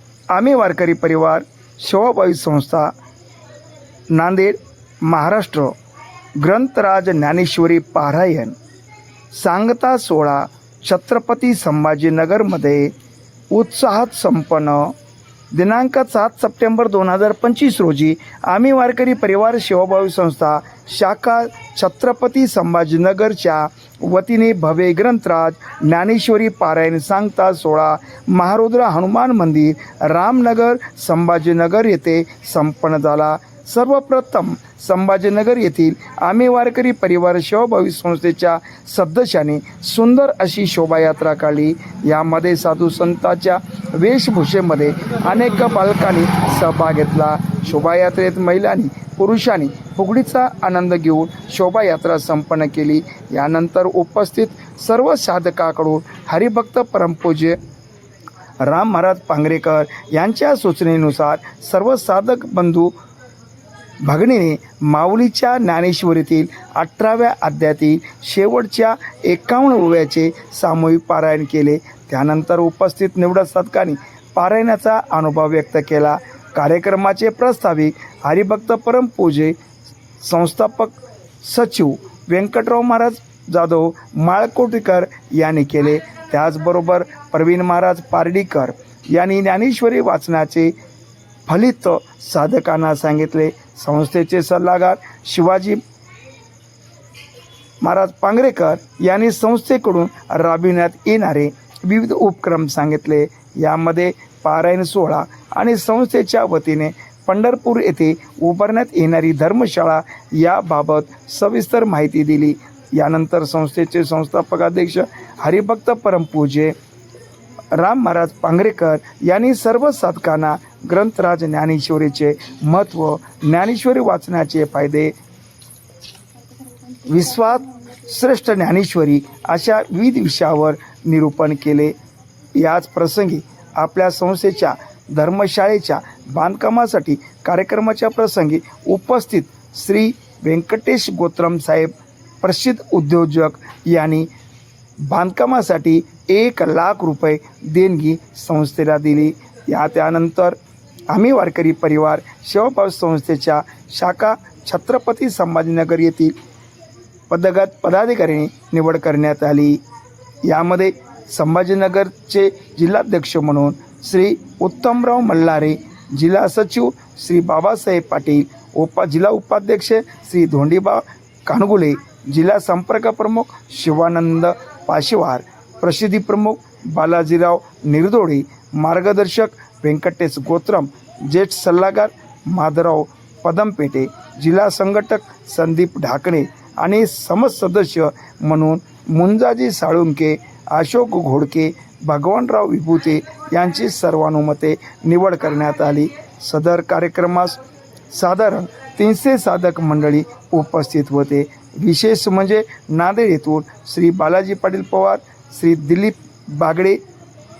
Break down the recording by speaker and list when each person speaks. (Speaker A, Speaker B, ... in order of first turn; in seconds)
Speaker A: 0.3-2.9, 4.1-5.7, 6.4-8.6, 9.3-12.9, 13.5-14.9, 15.5-57.6, 58.6-62.9, 64.0-79.6, 80.2-90.7, 91.5-95.8, 97.8-116.7, 117.7-125.1, 127.0-131.9, 132.6-144.3, 145.0-150.6, 151.1-156.4, 157.3-159.8, 160.4-197.6, 198.1-207.0